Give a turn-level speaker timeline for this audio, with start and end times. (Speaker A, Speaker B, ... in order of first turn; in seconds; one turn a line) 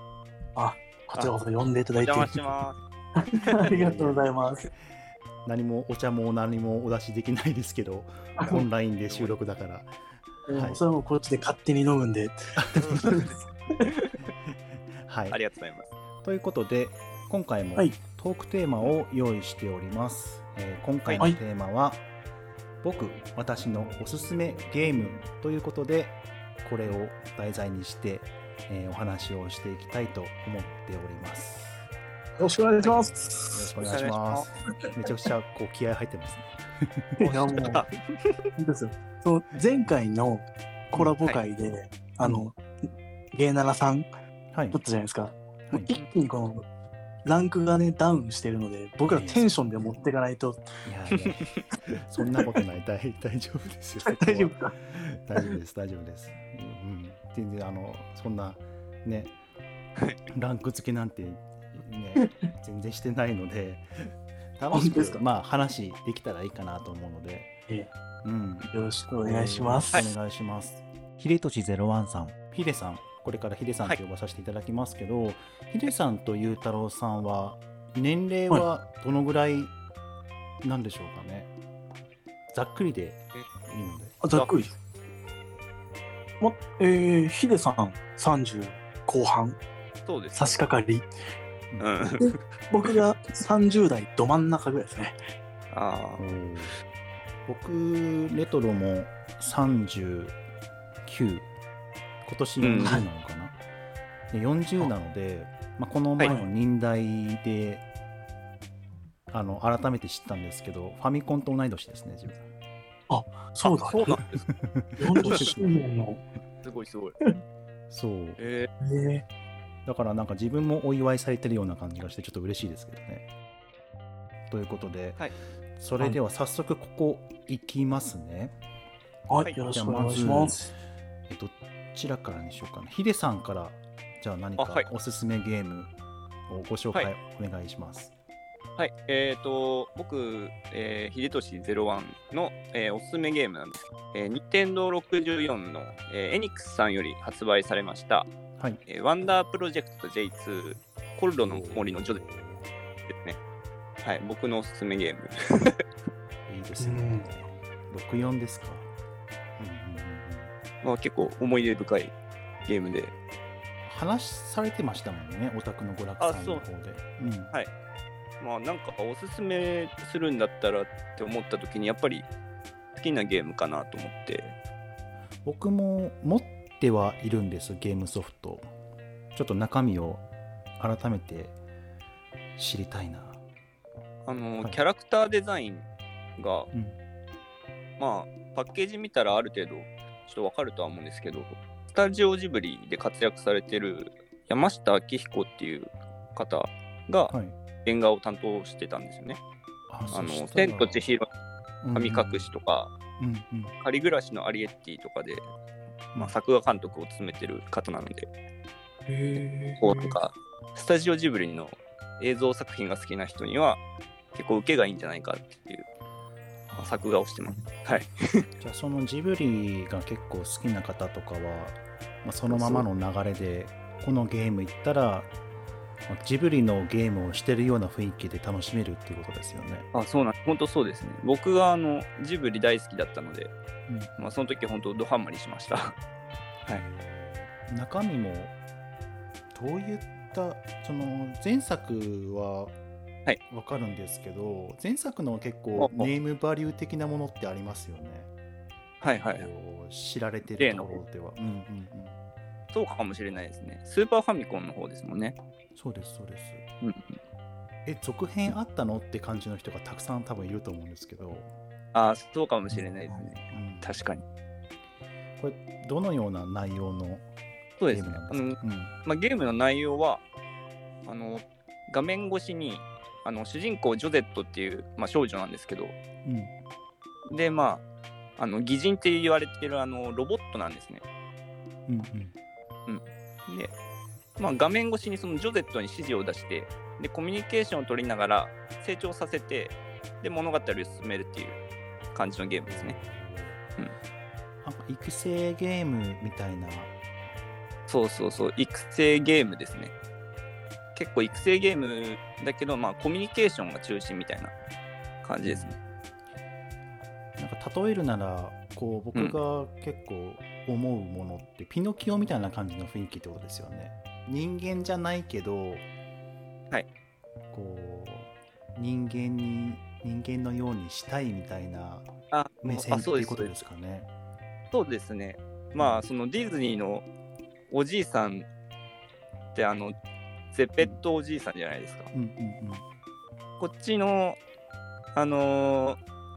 Speaker A: 0.6-2.5
Speaker B: 2.0-2.8
Speaker A: 3.1-4.7
Speaker C: 3.7-4.2
Speaker C: 5.4-9.9
Speaker A: 8.4-8.6
Speaker B: 9.0-9.4
Speaker A: 10.5-13.9
Speaker C: 10.5-10.8
Speaker C: 12.6-12.9
Speaker B: 13.8-14.1
Speaker C: 15.0-15.4
Speaker B: 15.3-15.9
Speaker C: 16.2-22.0
Speaker C: 22.8-31.8
Speaker A: 32.4-33.6
Speaker C: 32.8-37.7
Speaker B: 33.8-34.5
Speaker A: 37.2-37.9
Speaker B: 37.7-38.5
Speaker A: 38.5-42.6
Speaker C: 42.2-42.5
Speaker A: 43.3-44.1
Speaker C: 44.5-44.8
Speaker A: 44.7-46.6
Speaker A: 47.2-50.6
Speaker C: 49.1-49.5
Speaker C: 50.8-51.5
Speaker C: 52.0-59.3
Speaker A: 54.0-54.8
Speaker C: 60.3-67.5
Speaker A: 64.7-65.2
Speaker C: 68.2-68.7
Speaker A: 68.7-70.0
Speaker C: 69.2-79.7
Speaker C: 80.6-81.5
Speaker C: 82.5-84.2
Speaker A: 84.2-84.8
Speaker A: 86.4-89.6
Speaker B: 90.0-90.6
Speaker A: 90.3-91.1
Speaker C: 91.7-92.2
Speaker B: 91.8-92.4
Speaker A: 92.2-95.2
Speaker B: 95.7-96.3
Speaker C: 96.2-96.8
Speaker C: 97.5-100.3
Speaker C: 101.0-101.5
Speaker C: 102.2-103.5
Speaker B: 102.6-103.0
Speaker C: 104.3-107.8
Speaker C: 109.3-112.5
Speaker A: 113.1-114.0
Speaker B: 113.6-114.4
Speaker C: 114.5-115.7
Speaker A: 115.0-116.2
Speaker B: 115.2-115.5
Speaker B: 116.6-117.2
Speaker C: 117.9-118.4
Speaker B: 118.4-118.7
Speaker A: 118.8-119.2
Speaker C: 119.8-123.2
Speaker C: 124.5-125.2
Speaker C: 125.8-128.5
Speaker A: 129.3-130.7
Speaker C: 129.7-130.7
Speaker C: 131.3-135.9
Speaker B: 134.6-134.9
Speaker C: 136.5-138.1
Speaker B: 138.8-148.3
Speaker B: 148.9-152.2
Speaker C: 151.4-152.7
Speaker B: 153.1-153.4
Speaker B: 154.0-155.8
Speaker C: 156.5-158.9
Speaker A: 156.8-157.3
Speaker C: 159.6-160.5
Speaker B: 160.8-162.1
Speaker B: 162.6-163.1
Speaker C: 163.8-167.5
Speaker B: 166.2-166.6
Speaker B: 168.4-172.3
Speaker B: 173.0-174.5
Speaker C: 175.4-178.7
Speaker C: 179.3-180.2
Speaker C: 180.8-181.5
Speaker C: 182.6-183.4
Speaker B: 184.2-185.8
Speaker B: 186.4-186.7
Speaker C: 186.7-187.0
Speaker B: 188.0-197.3
Speaker C: 197.3-197.5
Speaker B: 197.8-199.4
Speaker C: 199.9-201.1
Speaker B: 200.1-201.3
Speaker C: 201.8-202.5
Speaker B: 201.9-202.9
Speaker C: 203.2-203.7
Speaker B: 203.8-205.5
Speaker B: 206.1-208.3
Speaker A: 209.1-210.2
Speaker B: 209.8-213.8
Speaker B: 214.3-215.9
Speaker C: 216.7-217.1
Speaker B: 216.8-218.5
Speaker C: 218.6-225.3
Speaker B: 222.5-222.8
Speaker C: 226.1-229.8
Speaker B: 229.9-233.5
Speaker C: 233.9-234.1
Speaker B: 234.2-235.9
Speaker C: 236.7-238.5
Speaker C: 239.5-242.7
Speaker C: 243.5-248.3
Speaker B: 245.8-246.1
Speaker B: 249.0-249.5
Speaker C: 249.3-252.2
Speaker B: 250.6-251.0
Speaker B: 252.7-255.3
Speaker C: 255.8-256.6
Speaker B: 256.8-257.2
Speaker C: 257.8-261.5
Speaker B: 261.9-264.2
Speaker C: 263.4-264.0
Speaker C: 265.4-267.2
Speaker B: 267.8-270.2
Speaker C: 267.9-268.9
Speaker B: 271.1-275.9
Speaker C: 276.2-276.5
Speaker B: 277.3-277.8
Speaker B: 278.4-281.0
Speaker C: 281.9-282.3
Speaker B: 282.9-283.7
Speaker B: 284.4-291.6
Speaker B: 292.1-293.0
Speaker C: 292.6-293.6
Speaker C: 294.6-296.9
Speaker B: 297.9-299.9
Speaker B: 300.9-304.5
Speaker B: 305.2-305.6
Speaker C: 305.4-305.8
Speaker C: 307.4-315.9
Speaker C: 317.5-322.1
Speaker B: 322.3-323.6
Speaker C: 322.6-324.1
Speaker B: 324.7-327.1
Speaker C: 325.7-326.0
Speaker B: 327.7-328.4
Speaker B: 329.5-329.9
Speaker B: 330.5-332.1
Speaker C: 332.1-332.8
Speaker B: 333.6-334.4
Speaker B: 335.1-336.0